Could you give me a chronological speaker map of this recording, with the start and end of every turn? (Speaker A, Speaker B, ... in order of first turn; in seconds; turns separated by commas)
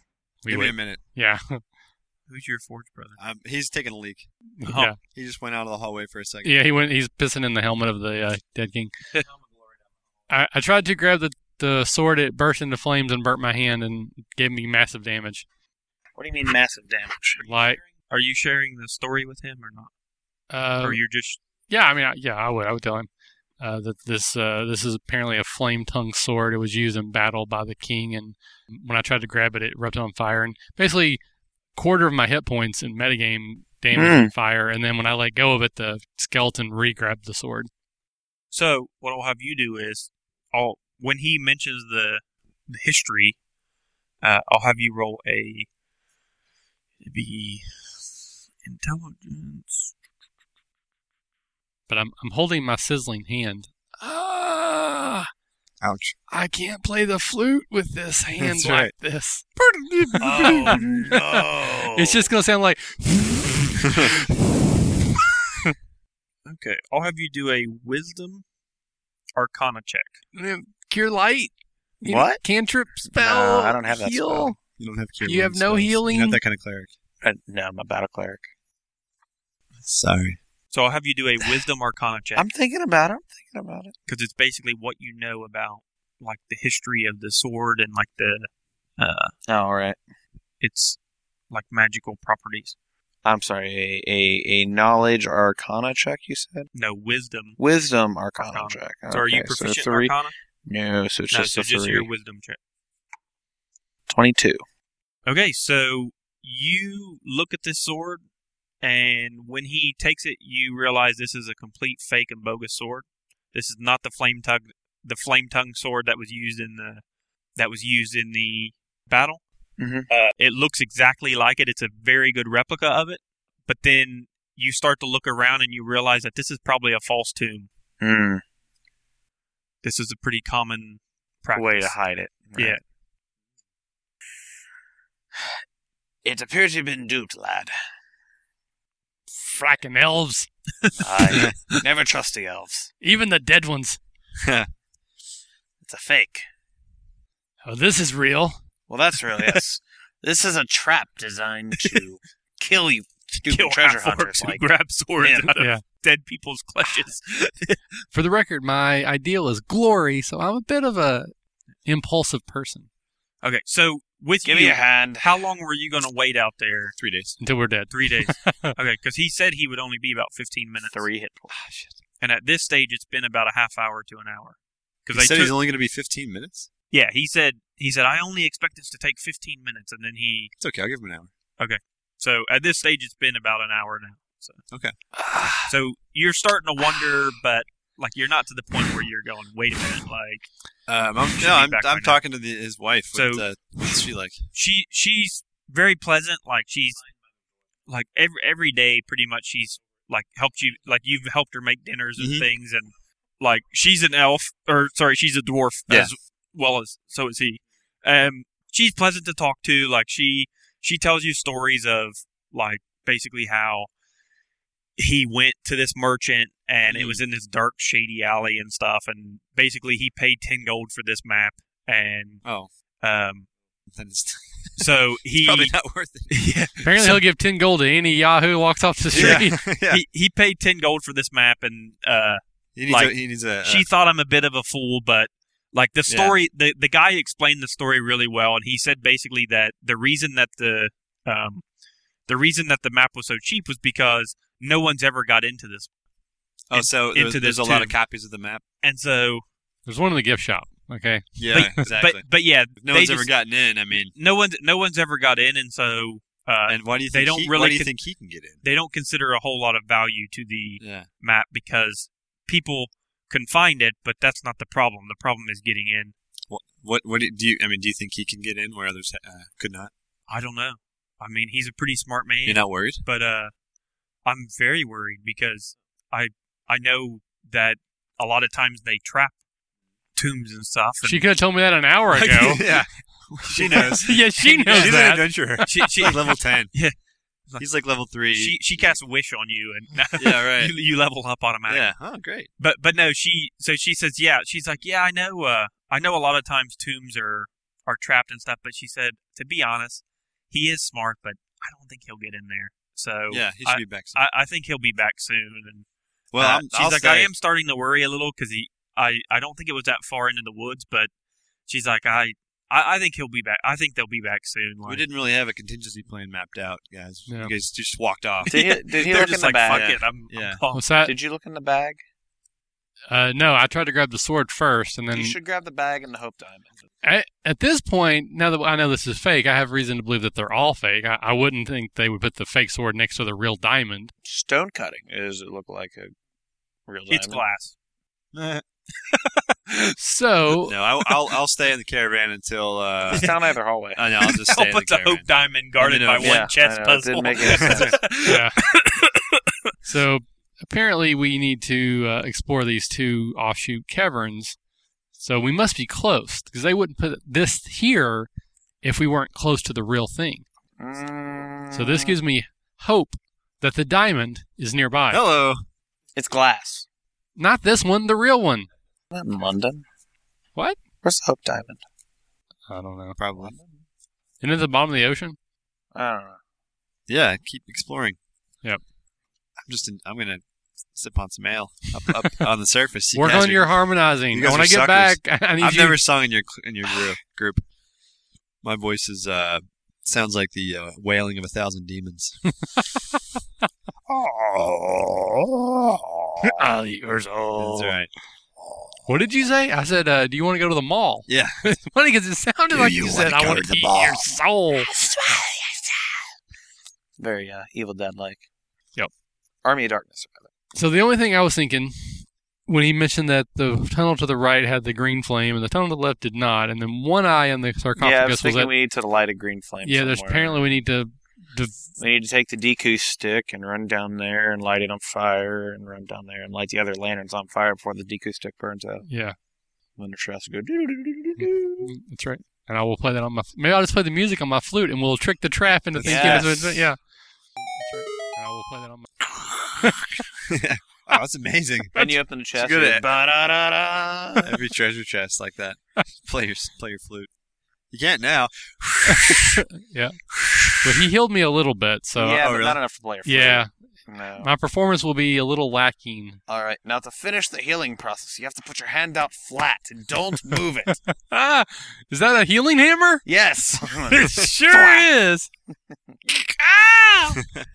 Speaker A: 0.4-1.6, Speaker B: 0.5-1.0, Speaker C: 2.3-3.2, Speaker B: 3.2-4.3, Speaker A: 4.6-5.0, Speaker C: 4.7-4.9, Speaker B: 5.1-6.6, Speaker A: 6.4-8.9, Speaker A: 10.3-15.4, Speaker D: 16.1-17.7, Speaker A: 17.4-17.8, Speaker C: 18.1-19.9, Speaker A: 20.5-21.0, Speaker C: 20.8-21.4, Speaker A: 21.7-23.1, Speaker A: 23.6-31.2, Speaker A: 31.7-37.7, Speaker D: 33.9-34.3, Speaker C: 38.5-43.4, Speaker C: 44.2-45.7, Speaker C: 47.0-48.0, Speaker C: 48.6-49.9, Speaker A: 51.9-55.3, Speaker B: 55.8-56.1, Speaker A: 56.3-64.3, Speaker B: 58.4-58.9, Speaker D: 60.2-62.3, Speaker C: 60.3-61.0, Speaker C: 66.5-68.4, Speaker C: 69.3-70.2, Speaker A: 70.3-74.6, Speaker D: 72.0-72.4, Speaker D: 73.1-74.5, Speaker B: 74.8-76.9, Speaker A: 75.2-76.4, Speaker D: 77.2-78.5, Speaker B: 79.8-80.4, Speaker C: 80.7-82.4, Speaker D: 82.3-83.9, Speaker C: 84.1-89.3, Speaker D: 89.5-90.0, Speaker C: 90.6-91.0, Speaker C: 91.5-92.8, Speaker D: 93.2-96.7, Speaker C: 96.7-97.6, Speaker D: 97.6-102.1, Speaker C: 98.4-100.3, Speaker C: 101.3-102.6, Speaker D: 104.1-104.6, Speaker C: 105.2-108.2, Speaker C: 108.8-117.0, Speaker C: 117.5-119.4, Speaker D: 119.8-120.1, Speaker C: 120.1-127.7, Speaker D: 128.0-128.4, Speaker C: 129.8-131.9, Speaker D: 131.5-132.8, Speaker C: 132.5-132.8, Speaker D: 136.2-137.7, Speaker A: 139.3-140.5, Speaker D: 141.0-142.9, Speaker A: 143.0-144.0, Speaker B: 144.4-144.7, Speaker D: 145.8-146.4, Speaker A: 147.6-148.6, Speaker D: 148.9-154.6, Speaker C: 153.4-157.8, Speaker D: 155.2-155.5, Speaker A: 155.6-155.8, Speaker A: 158.1-161.3, Speaker A: 161.8-162.9, Speaker C: 163.4-166.9, Speaker D: 164.4-165.4, Speaker B: 167.0-167.3, Speaker A: 167.4-168.7, Speaker C: 167.9-171.0, Speaker D: 170.9-171.5, Speaker A: 171.5-171.9, Speaker C: 172.2-175.5, Speaker B: 175.1-176.7, Speaker C: 176.9-180.5, Speaker B: 180.6-181.3, Speaker C: 181.6-184.6, Speaker D: 185.2-185.6, Speaker C: 185.7-190.5, Speaker B: 190.9-194.4, Speaker C: 191.3-192.2, Speaker C: 193.1-193.4, Speaker C: 194.5-197.0, Speaker C: 197.9-213.9, Speaker B: 202.2-202.5, Speaker C: 215.0-222.4, Speaker B: 216.9-217.2, Speaker B: 222.4-222.7, Speaker C: 223.0-223.5, Speaker B: 223.9-226.5, Speaker C: 224.8-225.8, Speaker C: 226.3-227.2, Speaker A: 226.8-229.6, Speaker B: 229.1-230.0, Speaker C: 229.1-241.6, Speaker B: 232.7-233.8, Speaker B: 236.1-236.3, Speaker C: 242.3-245.9, Speaker B: 246.7-248.6, Speaker C: 246.7-247.9, Speaker C: 248.8-249.4, Speaker A: 249.8-251.8, Speaker B: 251.3-254.1, Speaker C: 251.5-257.9, Speaker B: 256.7-258.6, Speaker C: 258.6-266.1, Speaker B: 260.8-261.1, Speaker B: 266.5-269.9, Speaker C: 270.3-273.5, Speaker B: 272.4-273.0, Speaker C: 274.2-279.4, Speaker C: 280.1-281.3, Speaker A: 281.0-282.6, Speaker C: 282.2-282.8, Speaker B: 282.2-286.8, Speaker C: 283.3-285.0, Speaker A: 284.0-286.0, Speaker C: 285.6-286.9, Speaker B: 287.6-288.9, Speaker C: 288.3-292.0, Speaker B: 290.1-290.7, Speaker B: 291.7-292.5, Speaker C: 292.6-311.1, Speaker B: 303.3-304.2, Speaker B: 306.3-307.3, Speaker C: 311.7-315.0, Speaker B: 314.8-318.6, Speaker A: 317.3-317.5, Speaker D: 318.4-320.0, Speaker C: 318.4-320.9, Speaker B: 319.7-320.6, Speaker A: 320.7-321.1, Speaker D: 321.0-322.0, Speaker A: 323.1-325.4, Speaker D: 325.1-326.8, Speaker A: 327.0-334.1, Speaker D: 334.2-336.1, Speaker D: 336.9-337.4, Speaker C: 337.1-337.7, Speaker B: 338.3-338.6, Speaker C: 339.1-339.9, Speaker A: 340.0-340.7, Speaker B: 340.6-343.3, Speaker D: 343.1-344.1, Speaker B: 343.9-346.4, Speaker C: 344.2-349.4, Speaker D: 346.2-348.0, Speaker B: 347.6-347.9, Speaker A: 348.2-348.6, Speaker A: 349.8-354.6, Speaker A: 355.2-358.3, Speaker A: 358.8-360.4, Speaker D: 360.8-362.2, Speaker A: 361.7-365.2, Speaker B: 365.1-365.6, Speaker D: 366.1-366.9, Speaker A: 367.4-368.7, Speaker D: 369.1-369.8, Speaker D: 371.0-371.8, Speaker A: 372.7-373.2, Speaker B: 373.2-373.5, Speaker D: 373.3-373.8, Speaker A: 374.4-375.4, Speaker D: 375.9-376.4, Speaker B: 377.1-378.2, Speaker B: 379.6-380.4, Speaker B: 380.9-387.6, Speaker A: 383.1-386.0, Speaker B: 388.6-392.4, Speaker A: 392.6-393.0, Speaker B: 394.1-395.2, Speaker A: 396.5-397.8, Speaker D: 397.4-397.8, Speaker B: 397.5-398.1, Speaker A: 399.1-405.4, Speaker B: 401.3-401.8, Speaker B: 402.7-404.3, Speaker D: 404.9-405.9, Speaker D: 407.2-408.4, Speaker D: 409.6-410.5, Speaker A: 410.7-418.7, Speaker D: 418.0-420.7, Speaker A: 419.8-421.8, Speaker D: 422.0-429.1, Speaker A: 429.1-429.4, Speaker D: 430.0-431.9, Speaker A: 431.4-437.0, Speaker B: 435.9-436.8, Speaker D: 436.0-436.7, Speaker A: 437.6-439.2, Speaker A: 439.8-440.2, Speaker B: 440.4-442.0, Speaker D: 441.9-444.6, Speaker B: 442.5-443.1, Speaker B: 444.4-447.3, Speaker B: 447.9-449.6, Speaker A: 449.1-450.2, Speaker B: 450.3-450.9, Speaker A: 450.8-452.4, Speaker D: 452.1-454.5, Speaker B: 452.4-452.8, Speaker A: 453.2-453.7, Speaker A: 454.4-456.4, Speaker D: 456.5-461.0, Speaker A: 461.1-463.2, Speaker D: 463.2-465.1, Speaker A: 463.9-465.5, Speaker D: 466.2-467.4